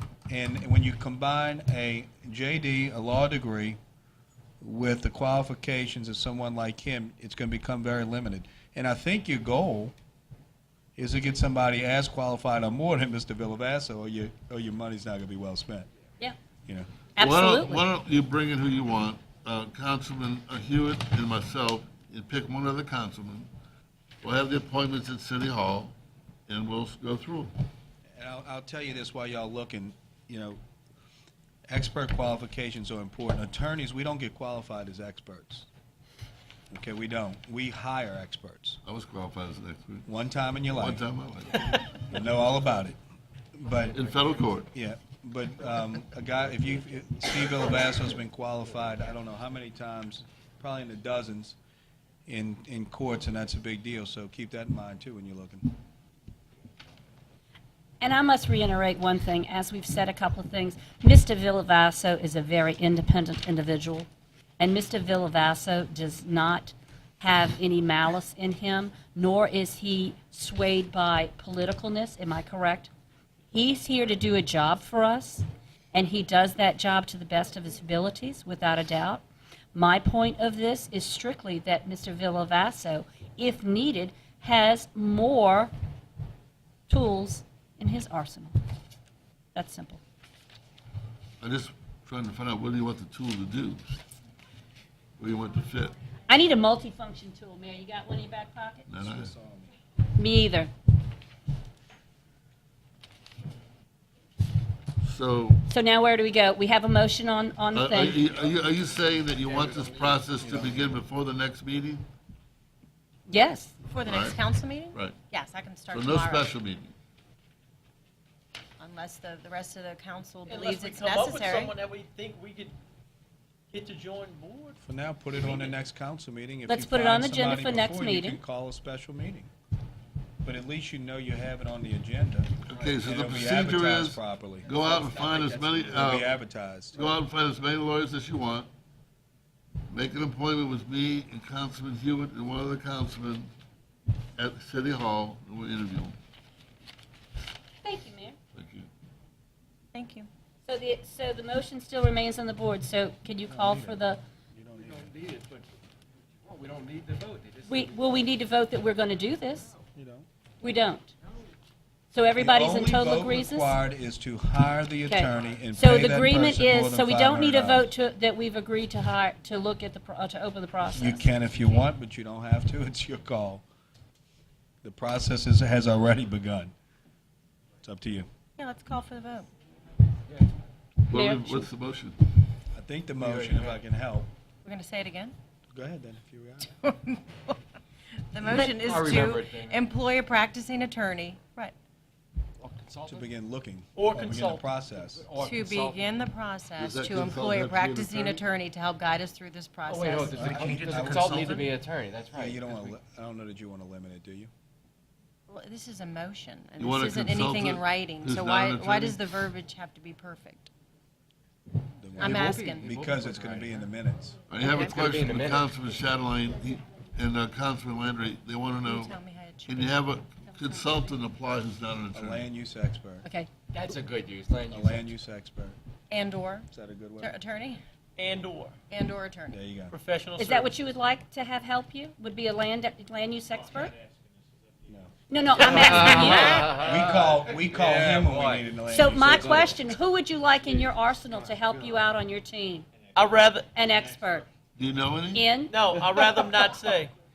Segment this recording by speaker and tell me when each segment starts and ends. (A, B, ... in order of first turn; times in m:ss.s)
0:00.3-0:03.8 A
0:04.6-0:09.9 A
0:11.0-0:15.9 A
0:17.2-0:17.8 B
0:17.2-0:23.5 C
0:24.2-0:25.9 C
0:26.5-0:27.5 C
0:28.2-0:30.6 A
0:31.7-0:35.7 A
0:36.7-0:38.8 A
0:38.8-0:40.1 C
0:40.0-0:41.0 A
0:40.7-0:41.7 C
0:42.0-0:43.0 A
0:43.5-0:44.0 A
0:43.9-0:44.7 C
0:44.7-0:51.6 A
0:52.2-0:55.7 A
0:58.0-1:04.1 B
1:04.6-1:12.9 B
1:13.5-1:19.2 B
1:19.7-1:25.7 B
1:26.9-1:28.5 B
1:29.5-1:30.0 B
1:31.4-1:33.9 C
1:35.2-1:35.9 C
1:36.3-1:38.8 B
1:38.9-1:39.3 C
1:39.0-1:39.7 A
1:40.2-1:40.7 B
1:45.0-1:45.6 C
1:45.7-1:48.3 B
1:47.7-1:52.0 C
1:50.4-1:50.8 A
1:53.3-1:53.8 B
1:53.9-1:56.5 D
1:54.0-1:54.4 C
1:55.9-1:56.9 C
1:58.8-2:01.7 D
2:00.5-2:02.7 E
2:03.7-2:04.7 E
2:04.8-2:09.5 A
2:06.7-2:08.4 B
2:10.4-2:17.1 A
2:12.6-2:16.3 C
2:16.9-2:18.7 C
2:19.9-2:23.5 C
2:24.4-2:26.2 C
2:27.8-2:28.4 B
2:28.5-2:28.9 C
2:29.9-2:30.3 D
2:30.6-2:34.2 B
2:33.5-2:34.0 A
2:34.5-2:35.1 A
2:34.8-2:35.6 F
2:36.4-2:38.0 F
2:37.7-2:39.7 B
2:39.9-2:40.3 A
2:40.6-2:41.1 B
2:42.1-2:43.8 B
2:42.4-2:47.9 A
2:45.1-2:51.2 B
2:50.9-2:53.6 A
2:54.8-2:56.7 A
2:57.8-2:58.3 A
2:58.6-2:59.5 D
3:01.1-3:02.2 C
3:01.1-3:01.7 B
3:02.7-3:04.3 A
3:03.2-3:03.7 F
3:04.6-3:05.3 D
3:05.7-3:06.7 A
3:06.7-3:07.6 D
3:08.3-3:11.7 D
3:08.5-3:09.8 F
3:12.6-3:13.2 F
3:13.0-3:15.3 A
3:14.0-3:14.6 E
3:15.1-3:16.2 F
3:15.4-3:21.6 D
3:16.8-3:18.4 C
3:19.9-3:23.0 F
3:20.3-3:21.6 A
3:22.3-3:24.5 A
3:25.5-3:30.7 D
3:26.8-3:29.2 C
3:32.0-3:34.4 A
3:32.2-3:32.9 D
3:32.2-3:33.8 F
3:34.5-3:39.1 C
3:34.6-3:35.7 F
3:38.8-3:40.0 D
3:39.6-3:42.4 C
3:42.1-3:43.2 A
3:43.2-3:43.5 B
3:43.7-3:45.0 F
3:44.7-3:45.8 A
3:46.1-3:47.8 D
3:46.7-3:47.4 A
3:48.2-3:48.7 E
3:48.9-3:49.6 D
3:49.5-3:49.9 A
3:49.9-3:50.7 E
3:50.4-3:54.0 B
3:54.9-3:59.8 A
3:55.3-3:56.7 B
3:55.6-3:56.4 E
3:55.6-3:58.7 F
3:58.9-4:02.9 B
3:59.3-3:59.7 F
4:01.4-4:02.0 F
4:03.1-4:03.7 E
4:03.7-4:04.5 B
4:04.8-4:05.5 C
4:05.3-4:05.8 B
4:05.7-4:07.1 E